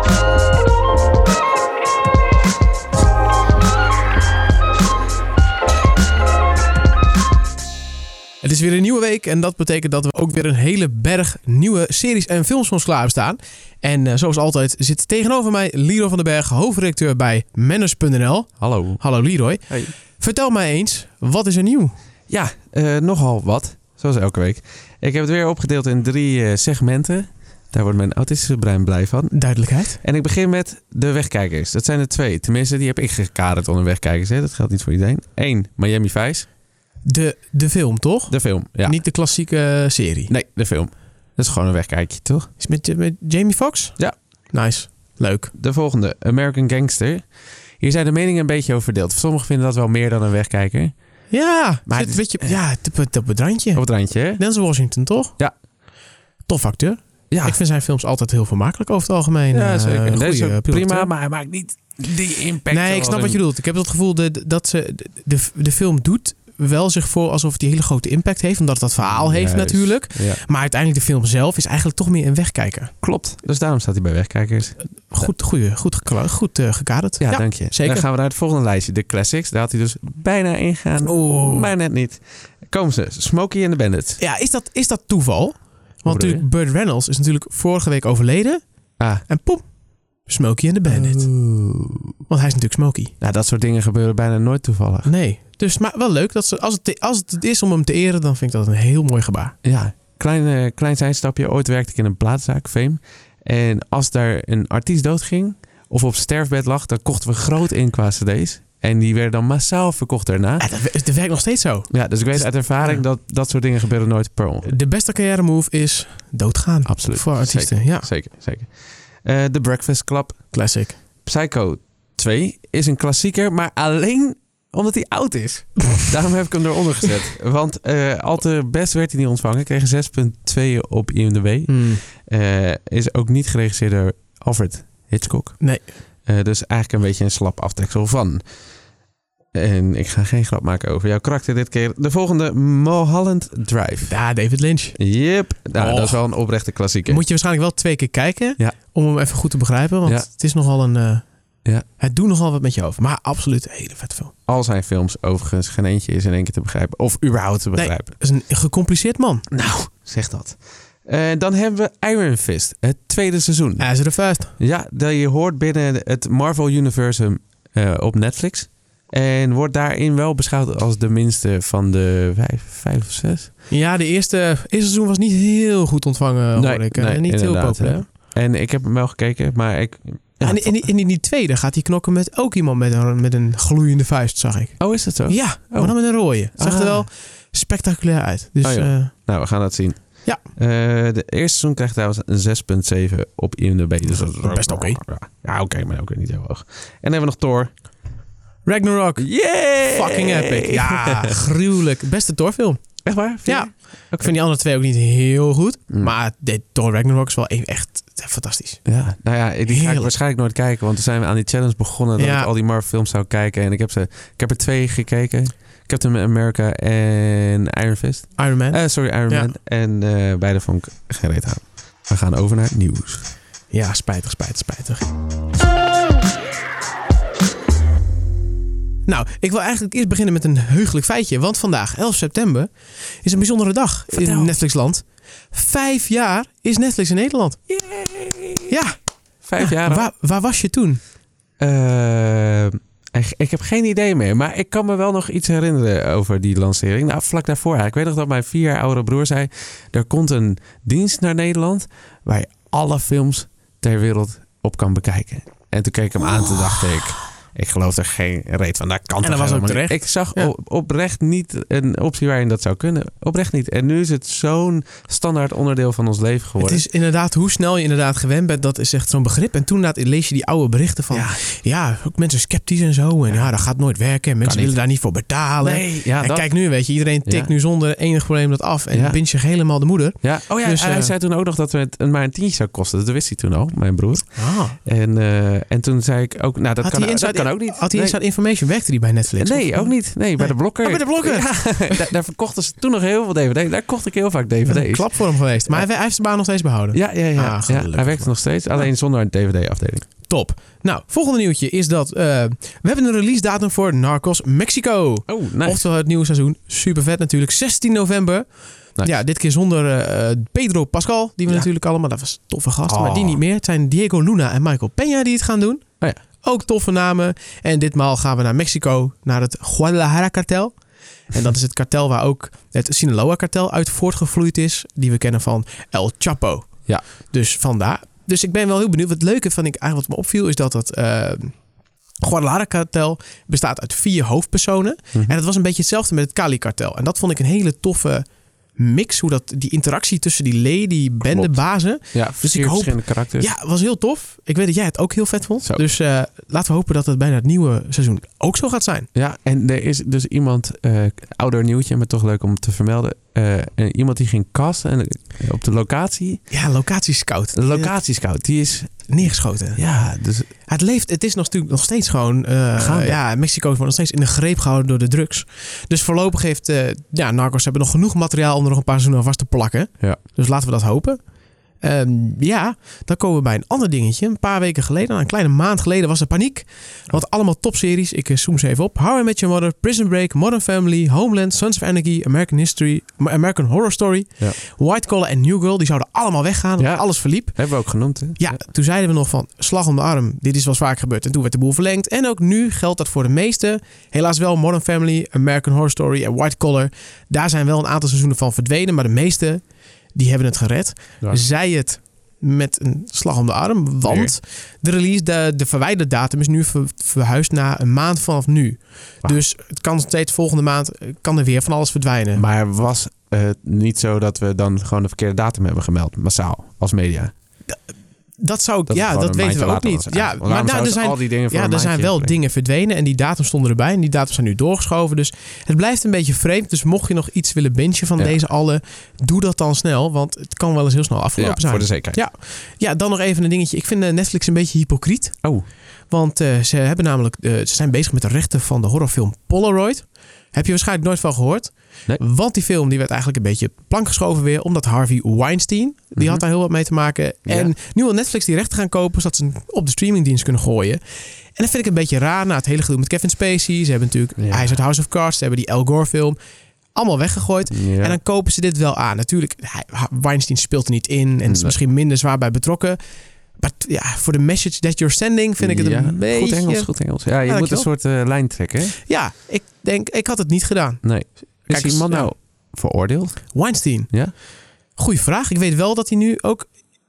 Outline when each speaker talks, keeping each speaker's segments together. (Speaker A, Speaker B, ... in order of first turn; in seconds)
Speaker A: 8.4-21.9, 29.3-30.0, 37.1-40.3, 42.6-44.0, 44.5-45.5, 51.3-55.3, 56.5-61.1, 62.7-72.9, 75.1-78.0, 81.0-81.7, 84.2-88.6, 89.2-89.6, 90.3-91.3, 92.3-93.1, 95.0-99.5, 110.6-113.0, 114.6-118.1, 120.5-121.0, 131.7-132.0, 135.6-135.9, 144.1-145.0, 145.8-146.2, 147.1-151.2, 152.0-154.3, 157.8-159.4, 163.8-164.5, 173.7-178.1, 180.4-189.1, 194.1-195.0, 198.7-199.3, 199.8-202.8, 203.4-208.8, 209.7-210.1, 212.2-212.5, 218.4-219.5, 223.7-225.1, 229.1-232.7, 233.2-237.6, 238.7-239.0, 239.6-241.0, 259.2-260.5, 266.6-281.1, 284.4-284.8, 286.8-292.0, 294.7-298.9, 300.3-315.8, 316.4-320.7, 321.3-331.6, 332.2-349.1, 356.5-357.9, 359.1-359.8, 360.7-371.2, 371.8-387.6, 388.4-399.6, 400.1-412.4, 418.4-435.4, 436.1-451.0, 451.6-456.4, 456.9-463.0, 463.6-467.9, 469.0-472.3, 473.5-474.1, 475.0-476.7
Speaker B: 18.6-19.0, 22.3-29.4, 30.0-36.5, 38.3-39.0, 40.3-42.5, 45.5-47.3, 47.8-50.9, 51.9-52.6, 53.8-54.4, 57.3-57.6, 59.5-63.4, 69.0-70.4, 73.0-75.3, 77.2-84.2, 86.1-86.5, 89.0-89.2, 90.9-92.2, 93.2-95.1, 99.6-110.7, 111.9-114.7, 116.9-120.5, 121.2-135.7, 136.3-138.4, 139.5-144.2, 145.0-147.2, 154.5-158.1, 159.5-163.9, 164.6-173.5, 176.6-180.8, 184.8-187.1, 188.6-197.7, 199.2-201.3, 203.0-204.3, 208.8-223.3, 234.1-234.6, 237.7-238.7, 239.4-240.1, 241.6-266.8, 271.1-271.4, 274.4-274.8, 275.6-276.5, 277.3-277.5, 278.9-279.2, 280.2-284.2, 284.8-288.2, 289.4-295.9, 296.9-300.0, 305.3-305.9, 312.9-313.4, 341.2-343.5, 349.1-356.5, 357.5-359.2, 359.8-360.5, 362.8-363.2, 386.8-388.6, 404.0-404.3, 412.4-417.3, 418.9-422.4, 431.4-432.2, 446.2-446.4, 447.5-447.7, 454.4-454.8, 457.7-458.2, 461.5-461.8, 465.6-469.0, 471.0-473.5